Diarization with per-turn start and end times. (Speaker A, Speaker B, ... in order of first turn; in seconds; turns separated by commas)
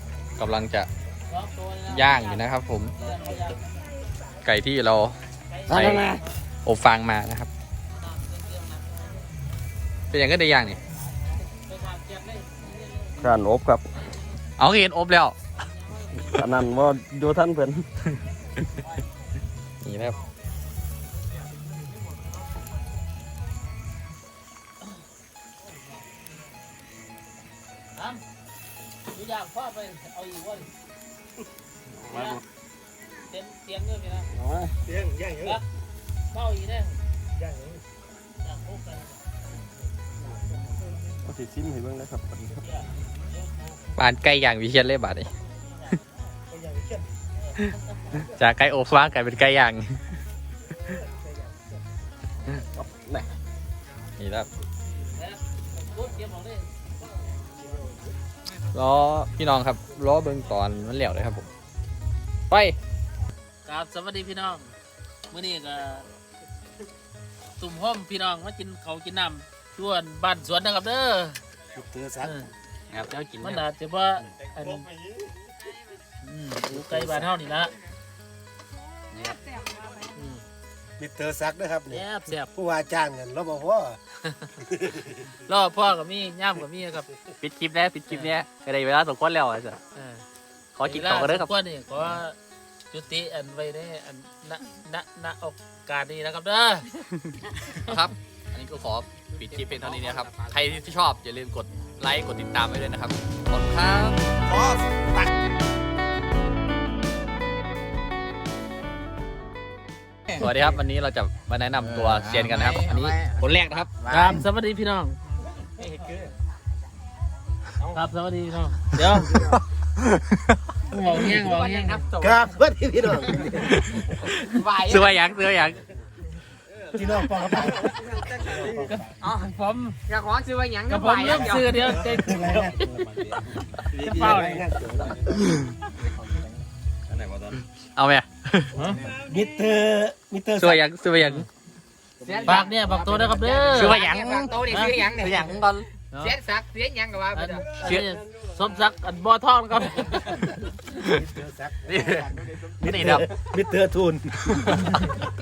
Speaker A: 0.4-0.9, Speaker B: 1.3-3.6, Speaker A: 1.9-2.9, Speaker A: 4.4-6.1, Speaker B: 5.5-6.2, Speaker C: 5.7-6.2, Speaker A: 6.6-7.5, Speaker B: 8.0-9.3, Speaker A: 10.1-10.8, Speaker B: 11.2-13.4, Speaker C: 13.2-13.8, Speaker A: 14.6-15.3, Speaker B: 15.9-16.2, Speaker C: 16.3-17.9, Speaker A: 19.8-20.2, Speaker B: 29.1-30.7, Speaker C: 31.9-32.4, Speaker B: 32.1-32.4, Speaker B: 33.3-34.3, Speaker C: 34.3-35.1, Speaker B: 35.2-35.6, Speaker B: 36.3-37.0, Speaker B: 38.4-39.2, Speaker C: 41.2-42.6, Speaker B: 42.6-43.7, Speaker A: 44.0-45.3, Speaker A: 47.6-50.0, Speaker C: 52.5-53.3, Speaker A: 54.2-54.5, Speaker B: 55.1-56.7, Speaker A: 58.7-61.5, Speaker A: 62.5-62.8, Speaker B: 63.6-64.7, Speaker B: 65.3-66.0, Speaker B: 67.6-71.4, Speaker D: 71.7-72.3, Speaker B: 72.2-72.5, Speaker A: 72.9-73.6, Speaker B: 73.4-74.9, Speaker B: 76.2-77.7, Speaker C: 76.7-77.2, Speaker A: 79.1-79.4, Speaker B: 80.1-80.4, Speaker D: 81.0-84.0, Speaker B: 81.9-82.5, Speaker D: 84.7-85.0, Speaker B: 85.4-87.1, Speaker A: 87.4-89.8, Speaker B: 89.9-90.2, Speaker A: 90.7-91.5, Speaker B: 90.8-92.3, Speaker B: 92.9-96.9, Speaker A: 97.1-104.2, Speaker E: 99.4-100.6, Speaker A: 110.3-114.2, Speaker E: 112.4-113.4, Speaker B: 114.1-115.2, Speaker B: 117.8-119.4, Speaker A: 119.3-119.6, Speaker A: 120.1-120.6, Speaker B: 120.9-122.1, Speaker E: 121.4-122.4, Speaker D: 122.2-124.0, Speaker A: 123.4-125.8, Speaker E: 124.4-125.1, Speaker D: 126.9-128.9, Speaker E: 128.1-128.4, Speaker C: 128.4-128.9, Speaker B: 128.6-130.0, Speaker E: 130.1-131.8, Speaker B: 130.9-132.7, Speaker D: 131.3-132.8, Speaker B: 133.9-134.7, Speaker C: 133.9-135.1, Speaker D: 134.0-135.6, Speaker C: 137.1-137.6, Speaker A: 137.9-138.9, Speaker B: 138.7-139.1, Speaker D: 139.1-140.8, Speaker A: 140.6-141.5, Speaker B: 141.2-141.4, Speaker E: 142.2-145.5, Speaker B: 142.4-144.0, Speaker A: 143.7-145.9, Speaker B: 146.1-146.4, Speaker E: 146.2-147.7, Speaker B: 147.3-150.6, Speaker A: 147.8-148.2, Speaker D: 151.0-152.3, Speaker A: 151.8-153.3, Speaker D: 152.8-155.0